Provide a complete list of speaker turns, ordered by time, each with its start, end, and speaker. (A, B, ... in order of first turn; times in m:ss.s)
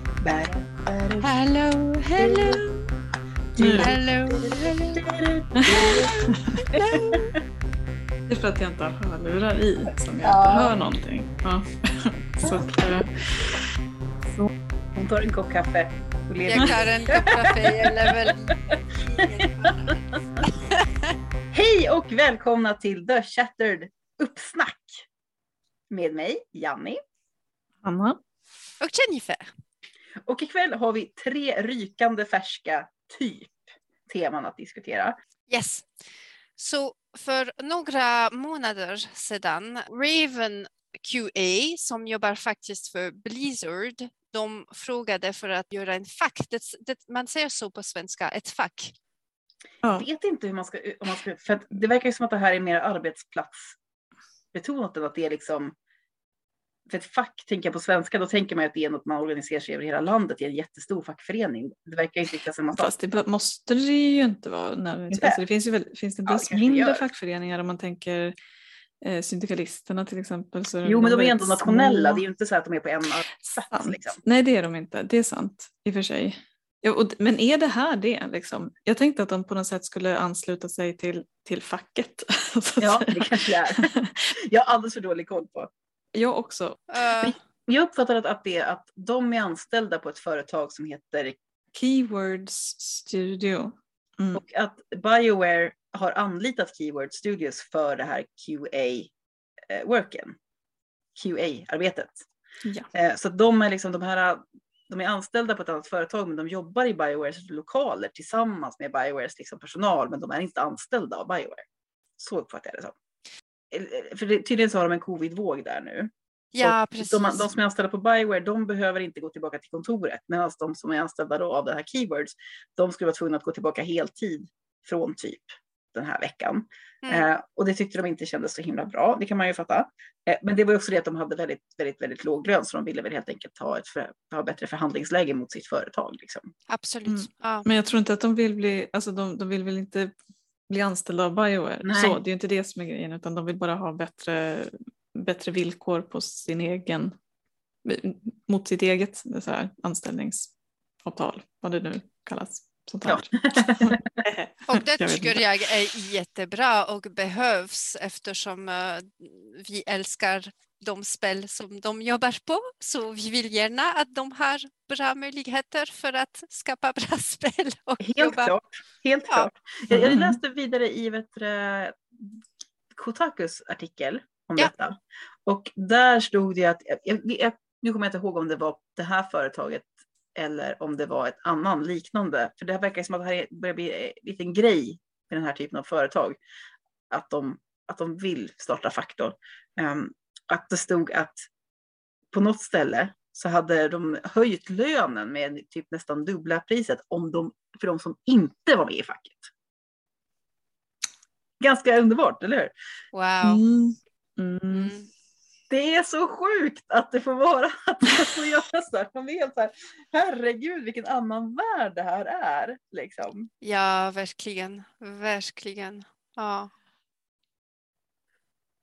0:00.2-0:01.3 A
0:01.2-0:02.8 B
0:02.2-0:02.6 A
0:03.6-0:06.2 A
0:03.6-0:03.9 C
0:03.8-0:05.0 B
0:05.6-0:06.4 C
0:06.7-0:07.2 B
0:06.7-0:07.4 A
0:08.3-0:13.6 C
0:10.2-0:10.7 A
0:14.9-0:18.5 A
0:16.5-0:21.1 B
0:19.4-0:19.9 A
0:21.5-0:25.1 A
0:25.9-0:27.0 A
0:27.8-0:28.2 C
0:28.8-0:29.5 B
0:30.3-0:35.1 A
0:35.5-0:35.8 B
0:36.6-0:48.9 B
0:49.9-0:53.8 A
0:54.5-0:55.7 A
0:56.9-1:02.9 A
1:02.8-1:08.3 C
1:05.1-1:05.4 A
1:06.3-1:07.1 A
1:09.0-1:12.2 C
1:10.8-1:14.2 A
1:13.4-1:24.1 C
1:22.8-1:25.7 A
1:26.1-1:26.8 C
1:26.9-1:27.4 B
1:27.2-1:31.4 A
1:31.7-1:34.4 C
1:34.3-1:39.1 A
1:39.7-1:40.4 A
1:41.2-1:42.2 A
1:42.9-1:51.6 A
1:52.2-1:52.9 A
1:53.7-2:16.5 A
1:56.5-1:57.5 B
2:07.0-2:07.3 B
2:16.7-2:17.7 B
2:17.1-2:20.1 C
2:20.7-2:27.1 C
2:21.8-2:22.2 A
2:27.8-2:30.5 C
2:31.0-2:35.4 C
2:33.1-2:34.2 A
2:34.7-2:48.5 B
2:48.0-2:52.4 A
2:49.9-2:50.4 C
2:52.9-3:06.4 A
3:07.1-3:11.5 A
3:12.3-3:19.5 A
3:21.6-3:22.7 A
3:23.1-3:23.6 B
3:23.4-3:24.9 C
3:24.7-3:25.1 B
3:25.7-3:33.5 A
3:33.6-3:36.7 B